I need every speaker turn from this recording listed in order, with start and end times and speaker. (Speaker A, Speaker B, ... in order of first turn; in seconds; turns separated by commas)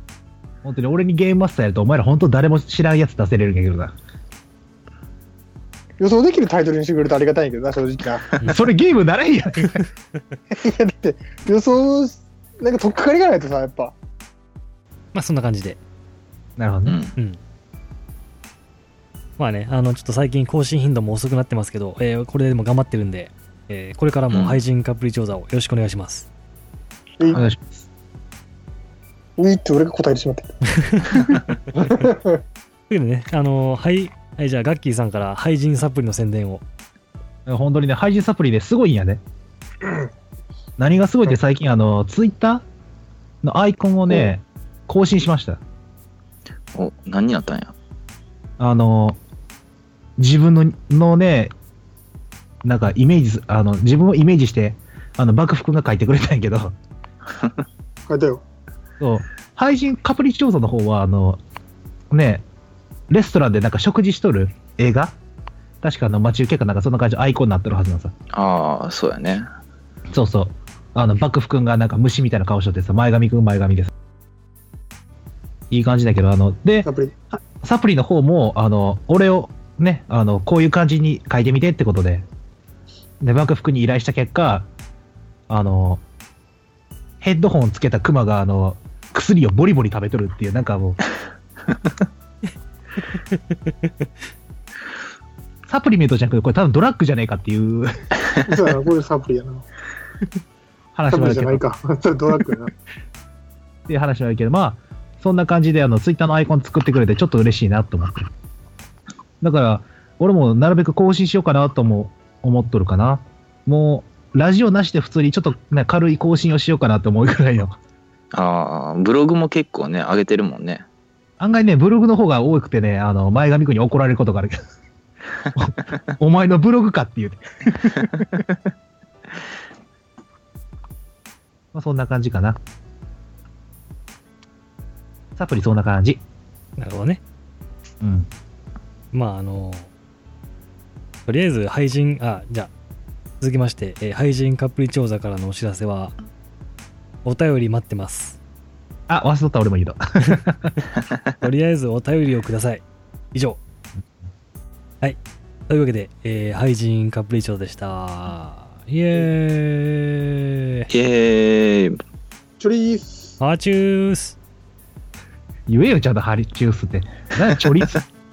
Speaker A: 0.6-3.9, Speaker B: 6.0-8.3, Speaker A: 8.4-9.8, Speaker B: 10.5-14.0, Speaker C: 15.1-15.8, Speaker A: 16.6-17.0, Speaker D: 16.9-17.2, Speaker C: 19.4-26.3, Speaker D: 24.3-24.6, Speaker B: 27.2-27.5, Speaker A: 27.3-27.8, Speaker B: 29.4-30.5, Speaker C: 30.8-31.5, Speaker B: 31.9-32.4, Speaker C: 32.9-36.6, Speaker A: 37.5-39.2, Speaker B: 39.8-40.1, Speaker A: 40.8-42.6, Speaker A: 43.4-45.6, Speaker D: 46.7-47.8, Speaker A: 48.6-49.2, Speaker A: 50.2-51.5, Speaker A: 52.6-56.8, Speaker B: 58.1-58.4, Speaker A: 59.0-61.4, Speaker A: 62.1-62.5, Speaker A: 63.1-65.2, Speaker A: 65.8-68.1, Speaker D: 68.3-69.5, Speaker A: 70.1-73.9, Speaker A: 75.7-82.3, Speaker B: 76.8-77.1, Speaker A: 83.2-84.7, Speaker A: 85.5-86.0, Speaker A: 87.2-91.0, Speaker C: 93.1-93.4, Speaker A: 95.7-98.1, Speaker B: 98.4-99.7, Speaker A: 101.0-101.6, Speaker B: 101.1-102.7, Speaker A: 103.9-108.3, Speaker A: 109.4-117.8, Speaker D: 118.3-120.9, Speaker A: 121.4-124.6, Speaker A: 125.5-128.4, Speaker A: 131.7-132.6, Speaker A: 135.4-136.2, Speaker C: 136.8-137.2, Speaker A: 138.0-138.3, Speaker C: 139.1-139.9, Speaker C: 141.3-142.7, Speaker C: 143.4-146.2, Speaker C: 147.2-148.4, Speaker A: 149.1-150.7, Speaker C: 151.4-153.6, Speaker C: 155.0-160.9, Speaker D: 160.9-162.0, Speaker B: 162.6-163.4, Speaker C: 163.4-164.4, Speaker A: 165.7-168.0